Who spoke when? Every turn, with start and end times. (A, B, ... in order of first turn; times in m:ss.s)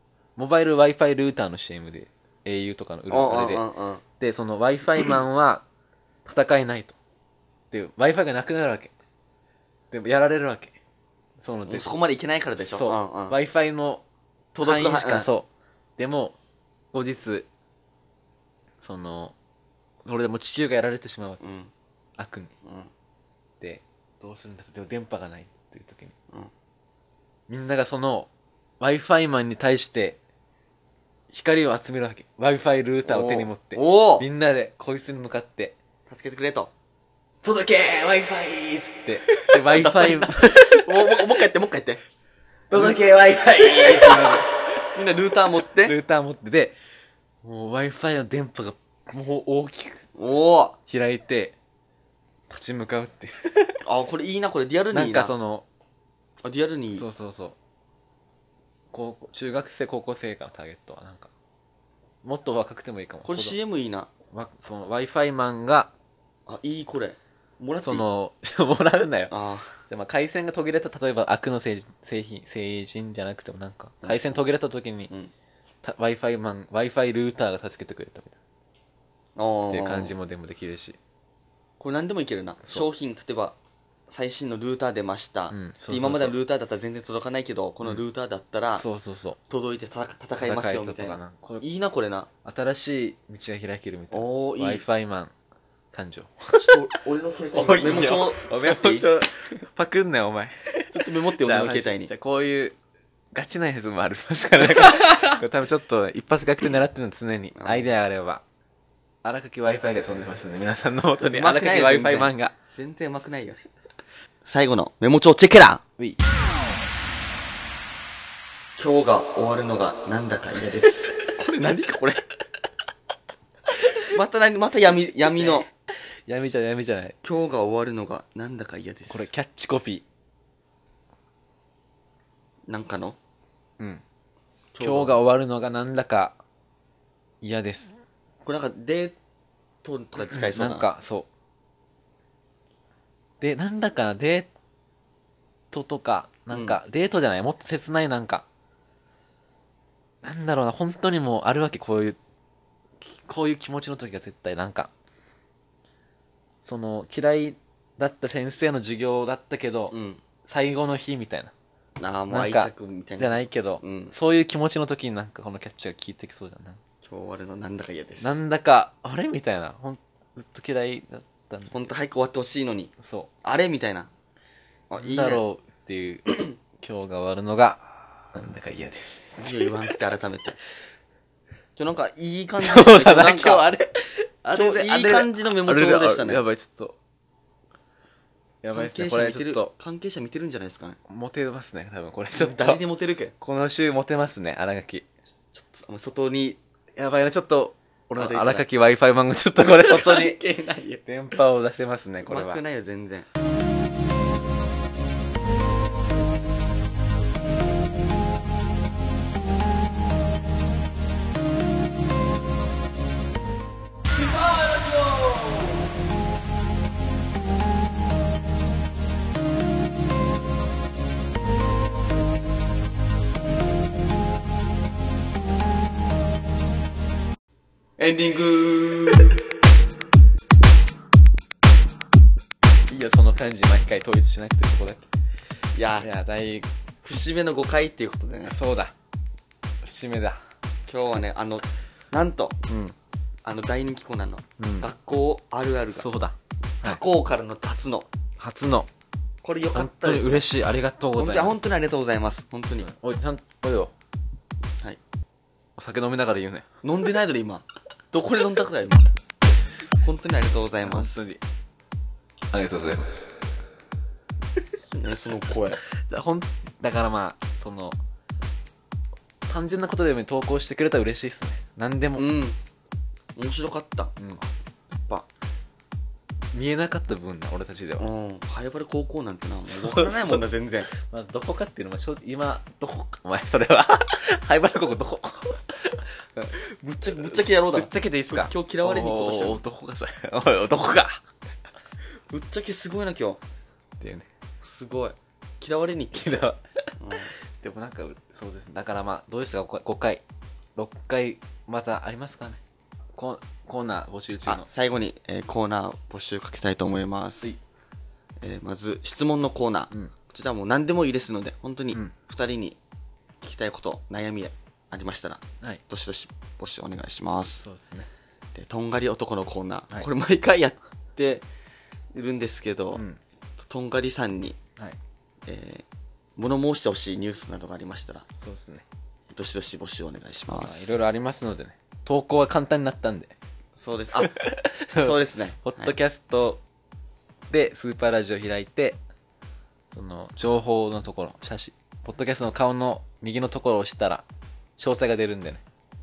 0:00.4-0:03.6 A
0:03.1-0:04.0 B
0:04.2-0:05.6 A
0:06.2-0:07.0 A
0:07.7-0:08.9 A
0:09.9-0:10.8 A
0:11.4-0:11.9 A
0:11.7-0:13.4 B
0:12.6-0:14.0 A
0:14.5-0:15.3 B
0:14.6-0:16.4 A
0:16.9-0:17.5 A
0:18.8-0:19.3 A
0:20.0-0:21.4 A
0:21.4-0:21.7 B
0:22.2-0:22.5 A
0:22.6-0:22.9 B
0:23.6-0:26.1 A
0:27.5-0:28.3 A
0:28.8-0:30.2 A
0:31.3-0:35.8 A
0:33.0-0:34.2 B
0:36.1-0:36.7 B
0:37.4-0:41.2 A
0:39.4-0:42.0 B
0:42.7-0:44.5 A
0:42.7-0:43.0 B
0:43.6-0:45.9 B
0:45.8-0:46.8 A
0:47.4-0:50.0 A
0:50.2-0:50.8 B
0:50.9-0:51.6 A
0:52.5-0:53.8 A
0:53.8-0:55.3 B
0:54.9-0:55.6 A
0:56.4-0:57.0 B
0:57.0-0:57.6 A
0:58.9-1:01.3 A
1:02.2-1:03.6 A
1:03.2-1:04.1 B
1:04.3-1:05.9 A
1:06.5-1:08.0 B
1:07.8-1:09.3 A
1:09.3-1:09.7 B
1:09.9-1:15.1 A
1:14.0-1:14.4 B
1:15.8-1:18.4 A
1:19.4-1:20.1 B
1:19.7-1:21.0 A
1:21.8-1:23.6 B
1:24.1-1:28.8 B
1:25.5-1:26.4 A
1:28.7-1:29.4 A
1:29.5-1:32.3 B
1:30.4-1:31.6 A
1:32.4-1:35.3 A
1:34.1-1:34.8 B
1:35.9-1:37.0 A
1:36.6-1:39.1 B
1:37.5-1:42.8 A
1:40.9-1:42.1 B
1:43.3-1:48.4 A
1:44.7-1:45.3 B
1:47.5-1:47.9 B
1:49.2-1:52.5 A
1:51.2-1:53.6 B
1:54.4-1:55.8 B
1:56.0-1:56.2 A
1:58.8-2:02.2 B
2:03.8-2:04.1 A
2:04.1-2:05.7 B
2:05.3-2:07.2 A
2:07.2-2:09.3 B
2:09.1-2:10.0 A
2:12.7-2:13.2 B
2:14.7-2:15.2 B
2:14.8-2:16.4 A
2:17.4-2:17.9 A
2:18.4-2:19.2 B
2:19.8-2:20.9 B
2:20.3-2:21.3 A
2:23.4-2:24.5 A
2:25.7-2:28.4 A
2:26.5-2:26.8 B
2:30.2-2:32.2 A
2:33.0-2:34.9 A
2:36.6-2:41.5 A
2:39.9-2:40.2 B
2:42.0-2:44.1 B
2:42.3-2:46.8 A
2:47.0-2:48.4 B
2:48.2-2:51.9 A
2:51.7-2:54.1 B
2:53.0-2:53.3 A
2:54.9-2:55.4 B
2:55.0-2:59.2 A
2:59.4-3:00.6 B
3:01.8-3:03.6 B
3:02.6-3:07.0 A
3:04.5-3:06.4 B
3:08.6-3:09.7 A
3:08.7-3:11.0 B
3:11.1-3:12.8 A
3:12.3-3:13.3 B
3:13.4-3:15.1 A
3:15.5-3:16.6 B
3:17.0-3:20.4 A
3:18.2-3:18.6 B
3:19.6-3:21.0 B
3:21.0-3:22.6 A
3:22.2-3:23.3 B
3:48.0-3:49.4 B
3:52.9-3:55.1 A
3:55.7-3:56.1 B
3:56.0-3:56.7 A
3:57.0-3:58.5 B
3:58.4-3:58.9 A
3:59.8-4:00.4 A
4:00.9-4:02.6 B
4:02.7-4:02.9 A
4:03.4-4:06.1 B
4:04.6-4:04.9 A
4:06.0-4:07.0 A
4:06.8-4:08.1 B
4:08.4-4:08.9 A
4:09.4-4:10.5 B
4:09.7-4:11.6 A
4:11.2-4:12.9 B
4:12.8-4:13.9 A
4:15.8-4:16.7 A
4:16.8-4:19.1 B
4:20.0-4:21.2 B
4:20.8-4:21.4 A
4:22.5-4:23.3 A
4:24.9-4:25.8 B
4:26.0-4:28.0 A
4:29.5-4:32.3 A
4:32.2-4:32.6 B
4:33.4-4:34.2 B
4:36.5-4:38.1 A
4:38.0-4:40.9 B
4:39.7-4:46.6 A
4:46.6-4:49.6 B
4:47.4-4:51.2 A
4:52.3-4:53.4 B
4:54.0-4:54.3 A
4:54.6-4:56.4 B
4:56.1-4:56.9 A
4:57.0-4:57.3 B
4:57.6-5:00.2 A
5:00.8-5:02.6 A
5:03.2-5:04.7 A
5:04.5-5:07.5 B
5:08.4-5:12.8 B
5:13.4-5:17.6 B
5:17.6-5:18.1 A
5:18.5-5:21.4 B
5:22.1-5:23.0 B
5:22.9-5:23.2 A
5:23.6-5:24.6 B
5:25.4-5:25.8 B
5:26.4-5:28.3 B
5:28.4-5:28.8 A
5:29.3-5:31.0 B
5:30.5-5:33.4 A
5:33.8-5:34.3 B
5:34.2-5:36.6 A
5:35.0-5:35.9 B
5:37.5-5:39.0 A
5:39.9-5:44.2 A
5:44.8-5:45.6 A